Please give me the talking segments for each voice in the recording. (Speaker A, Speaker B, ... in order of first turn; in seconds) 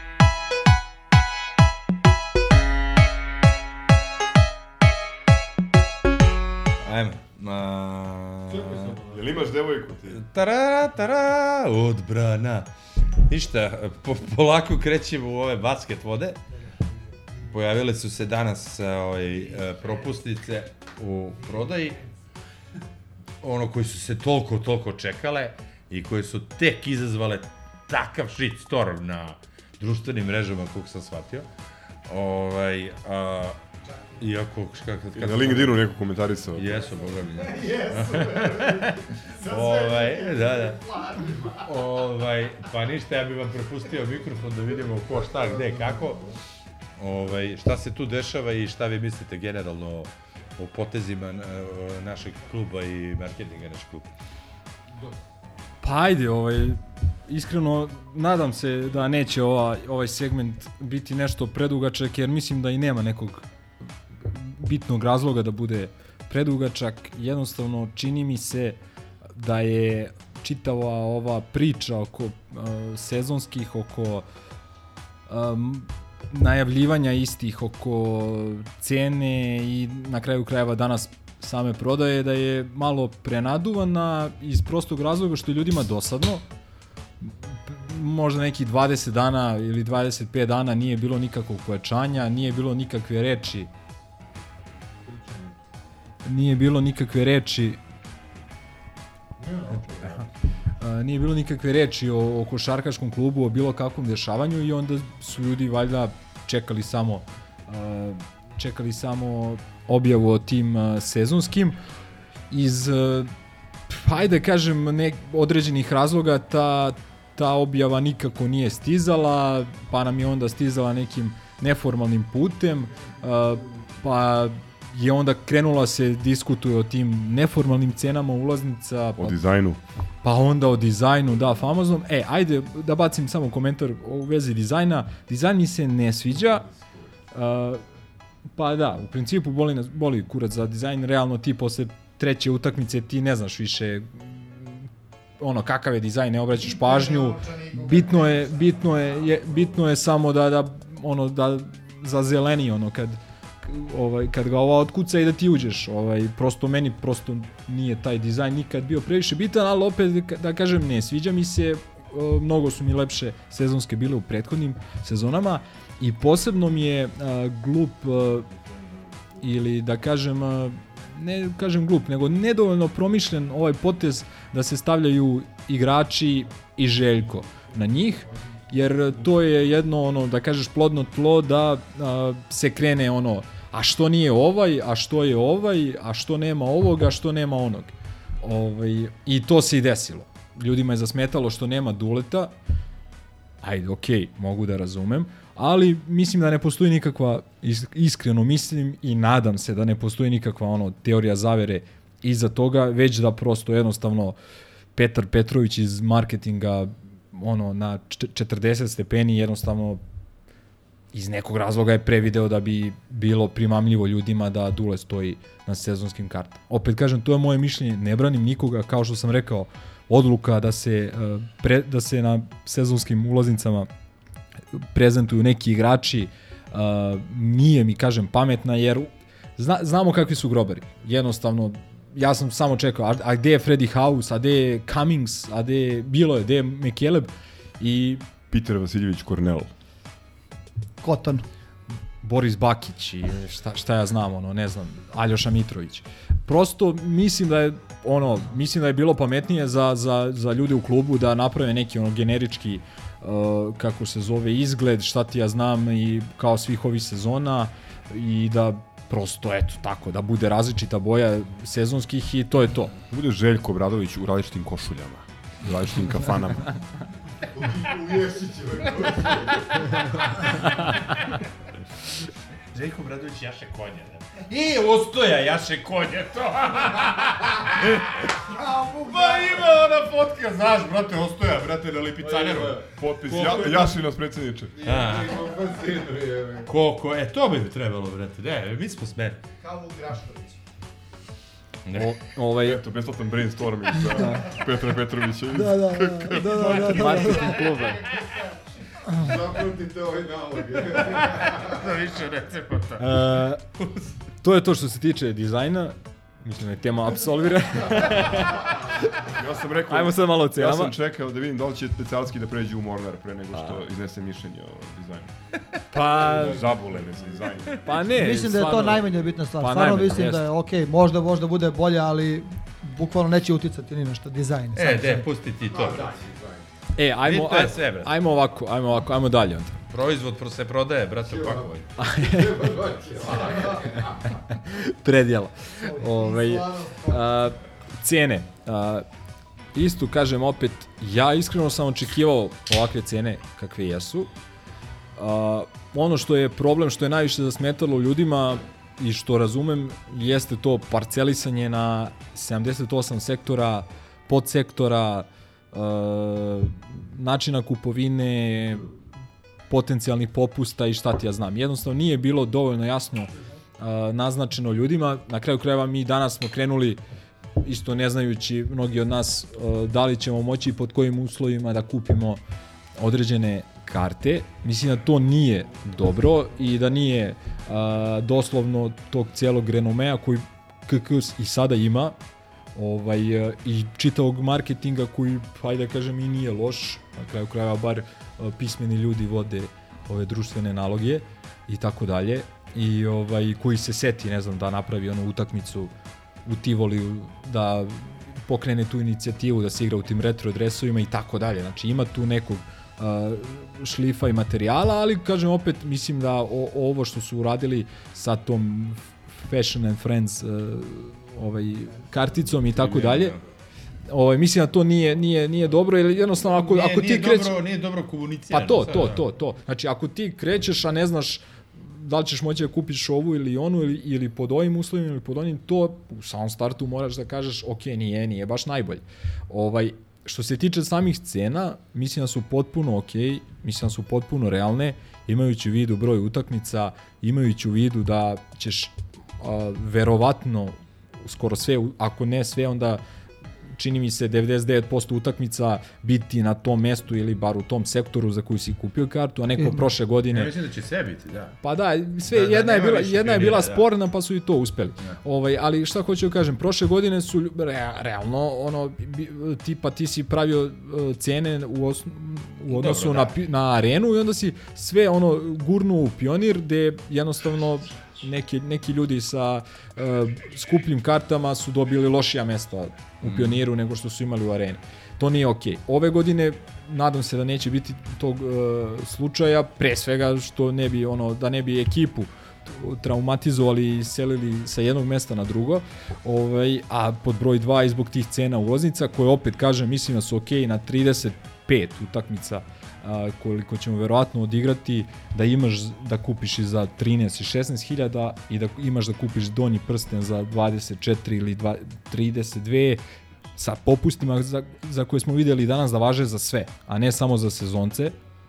Speaker A: 6.8-9.0, 10.1-12.7, 13.3-16.4, 17.5-22.0, 23.4-31.5, 32.1-33.6, 34.2-35.8, 36.5-40.8, 41.6-46.2, 47.0-54.1, 272.7-278.4, 279.0-283.9, 284.8-285.5, 286.6-289.4, 291.9-292.2, 296.3-298.2, 300.9-304.1, 313.5-313.8, 324.8-326.2, 327.2-328.1, 329.9-331.9, 333.2-333.8, 412.5-413.4, 416.4-419.3, 450.3-451.6, 452.3-453.9, 462.7-463.4, 473.2-473.6
Speaker B: 8.5-9.2, 37.4-41.6, 45.3-46.3, 95.0-95.5, 99.4-100.2, 136.4-137.1, 168.4-169.4, 267.5-270.0, 278.8-279.6, 282.2-282.9, 284.8-286.7, 299.2-301.7, 316.9-317.7, 325.7-326.6, 331.3-334.2
Speaker C: 9.1-10.2, 35.1-36.8, 129.2-129.8, 238.5-239.7, 263.1-266.7, 282.9-284.7, 291.9-297.6, 309.3-315.3, 316.0-318.0
Speaker D: 55.8-63.5, 64.2-68.8, 69.3-74.2, 75.3-86.4, 87.2-93.7, 96.2-97.8, 100.8-111.8, 112.5-113.3, 113.9-129.4, 130.2-136.7, 137.3-137.8, 138.6-144.9, 145.4-168.5, 169.4-192.5, 193.6-204.3, 204.9-210.0, 211.1-223.9, 224.7-238.2, 242.2-262.9, 292.3-292.8, 303.0-303.6, 304.4-308.6, 309.9-310.9, 315.9-316.7, 317.8-320.5, 326.9-329.8, 331.9-332.6, 334.4-339.0, 339.7-344.3, 345.1-358.9, 359.7-367.0, 367.6-372.4, 372.9-382.1, 382.7-395.9, 396.4-413.4, 414.1-417.6, 418.5-443.0, 443.8-450.5, 451.6-503.0, 503.6-508.1
Speaker E: 146.6-149.2, 289.6-290.5, 297.6-298.2
Speaker F: 241.0-241.4, 295.5-297.6, 318.1-325.2, 335.8-337.2, 449.6-449.9